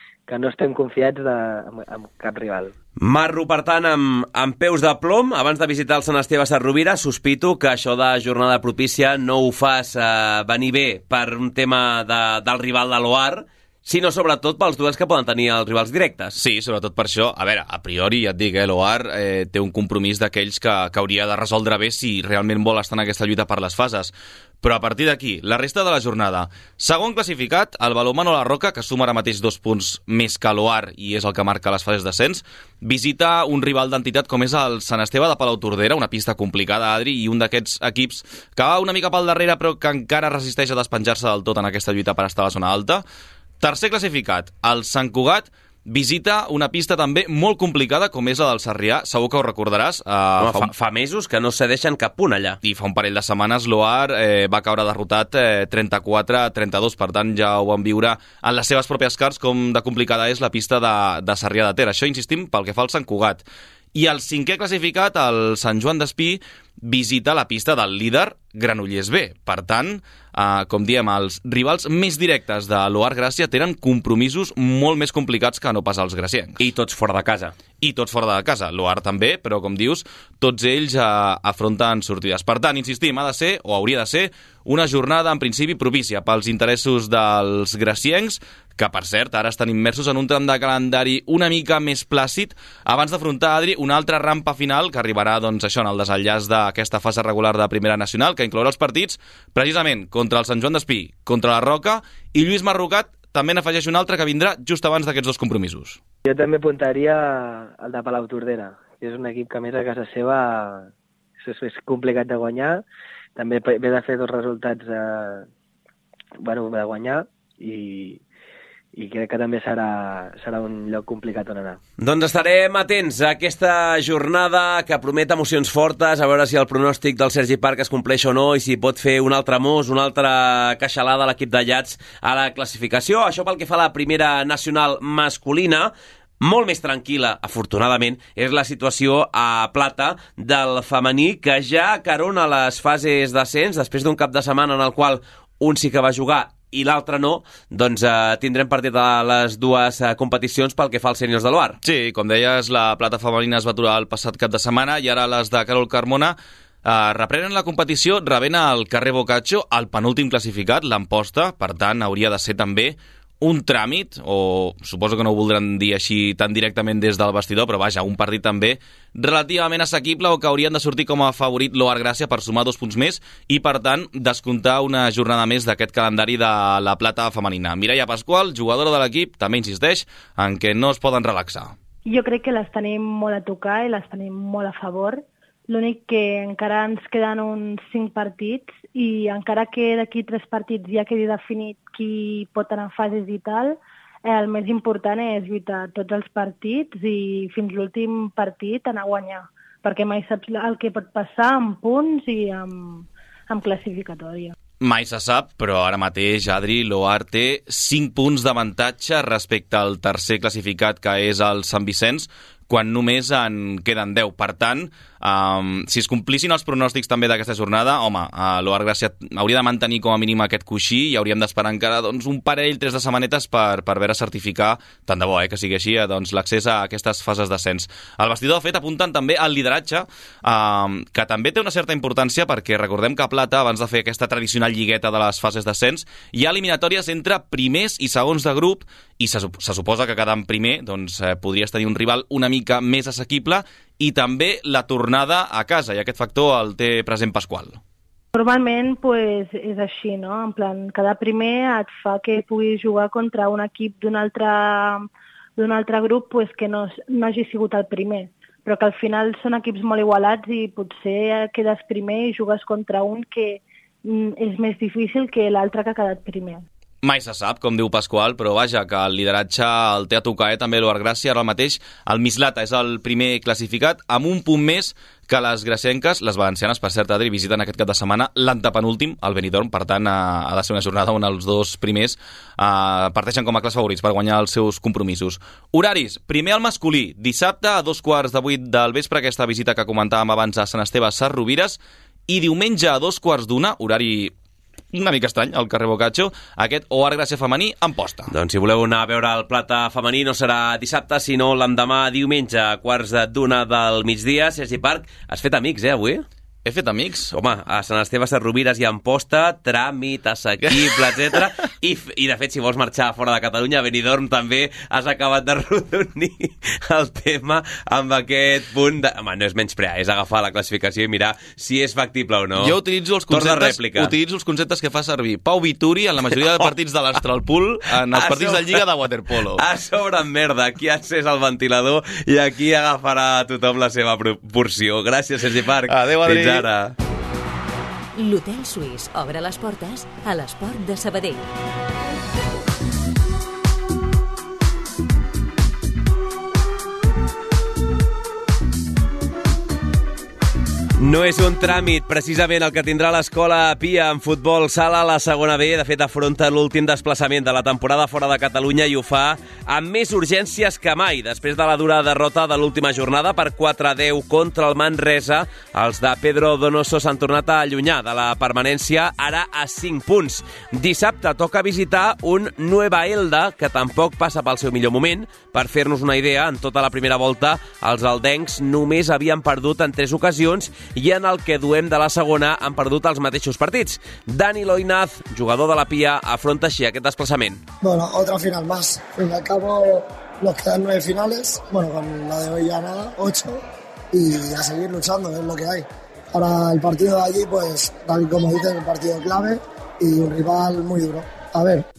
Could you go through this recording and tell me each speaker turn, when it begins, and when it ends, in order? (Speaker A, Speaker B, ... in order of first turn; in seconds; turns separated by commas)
Speaker A: 0.3-2.7, Speaker B: 3.0-16.4, Speaker C: 16.4-43.0, Speaker C: 43.6-50.7, Speaker B: 50.4-52.6, Speaker C: 52.6-76.6, Speaker B: 76.6-77.5, Speaker C: 77.8-106.0, Speaker A: 106.2-112.8, Speaker A: 113.4-115.5, Speaker A: 116.4-118.2, Speaker A: 118.9-121.8, Speaker B: 122.0-151.8, Speaker C: 151.8-181.7, Speaker D: 182.1-204.6, Speaker C: 204.8-247.8, Speaker D: 248.3-266.6, Speaker C: 267.0-294.3, Speaker C: 294.9-298.3, Speaker B: 298.3-306.2, Speaker C: 306.6-307.3, Speaker B: 307.3-322.8, Speaker C: 322.6-329.6, Speaker B: 323.3-324.1, Speaker B: 326.3-326.7, Speaker B: 327.9-328.9, Speaker B: 329.5-336.9, Speaker C: 335.9-336.7, Speaker E: 338.1-341.5, Speaker B: 351.0-387.6, Speaker F: 387.8-401.9